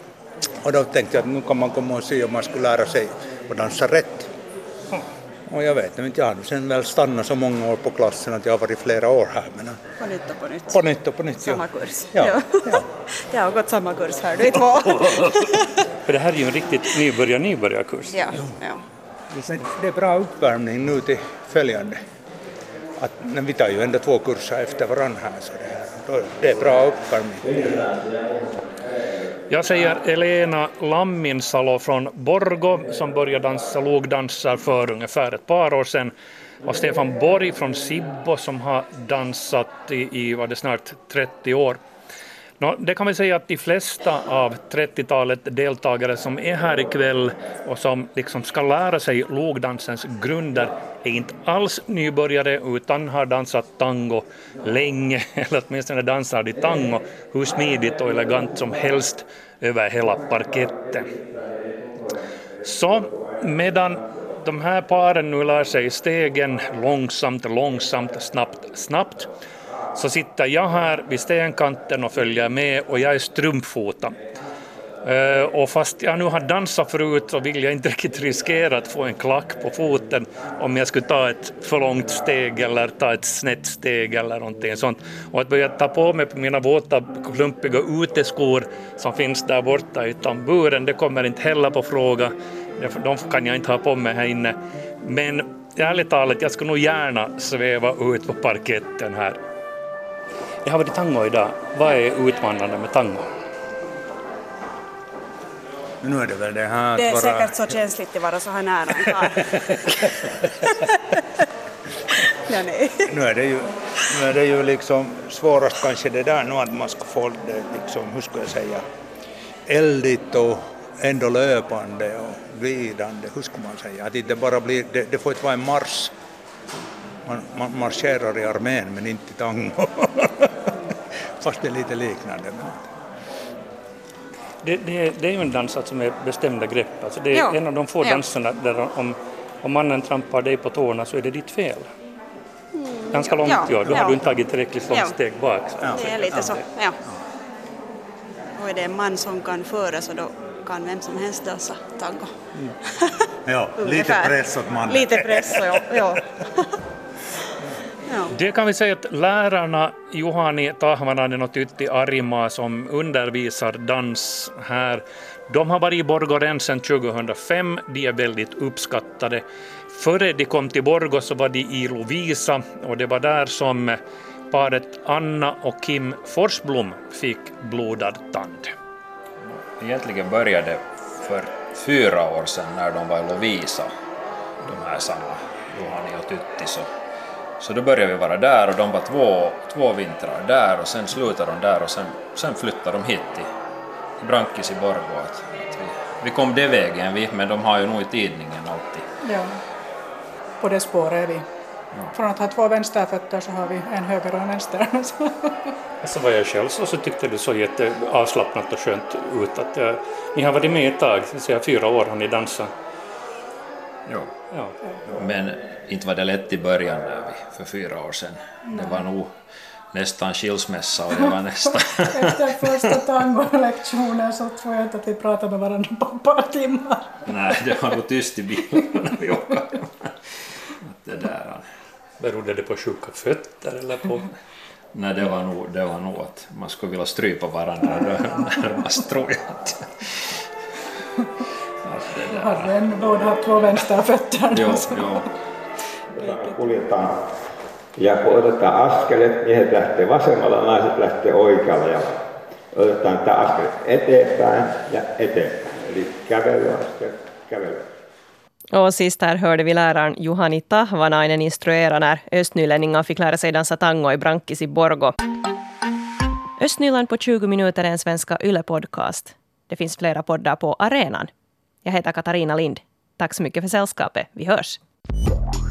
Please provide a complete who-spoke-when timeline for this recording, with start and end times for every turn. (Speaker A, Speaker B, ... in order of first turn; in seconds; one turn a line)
Speaker A: 0.6-4.3
Speaker A: 5.5-9.8
Speaker B: 10.0-10.8
Speaker A: 10.7-12.9
Speaker B: 11.5-12.4
Speaker B: 14.6-15.4
Speaker C: 16.1-18.2
Speaker A: 18.3-18.6
Speaker A: 19.4-22.0
Speaker A: 23.0-27.9
Speaker C: 29.5-36.1
Speaker C: 36.7-41.8
Speaker C: 42.6-61.1
Speaker C: 62.6-69.3
Speaker C: 70.0-74.2
Speaker C: 75.0-99.4
Speaker C: 100.7-103.3
Speaker A: 106.0-107.9
Speaker B: 107.0-109.3
Speaker B: 112.6-112.9
Speaker A: 113.1-118.8
Speaker A: 119.7-126.1
Speaker A: 127.2-130.7
Speaker A: 131.4-132.8
Speaker C: 134.6-141.9
Speaker B: 137.4-138.2
Speaker B: 142.8-144.1
Speaker C: 143.1-146.7
Speaker A: 143.8-144.3
Speaker A: 145.8-147.1
Speaker B: 146.0-146.9
Speaker B: 148.6-152.3
Speaker A: 153.5-156.1
Speaker B: 153.8-154.3
Speaker B: 154.9-156.2
Speaker C: 158.3-174.0
Speaker C: 174.5-178.7
Speaker D: 179.4-183.9
Speaker D: 184.6-186.9
Speaker D: 187.6-193.5
Speaker D: 194.2-199.1
Speaker E: 199.2-199.6
Speaker E: 200.6-201.5
Speaker E: 202.1-205.5
Speaker C: 206.0-212.7
Speaker D: 214.1-214.3
Speaker C: 214.5-214.8
Speaker D: 215.1-219.4
Speaker E: 218.7-219.0
Speaker D: 219.9-223.2
Speaker E: 221.2-227.2
Speaker D: 227.2-230.1
Speaker D: 230.8-231.7
Speaker C: 232.2-234.3
Speaker D: 234.9-240.4
Speaker D: 241.8-243.8
Speaker E: 242.3-245.3
Speaker D: 244.5-245.3
Speaker F: 246.1-247.2
Speaker F: 248.0-252.2
Speaker F: 252.7-257.9
Speaker G: 258.7-265.1
Speaker G: 266.6-271.3
Speaker G: 271.8-274.8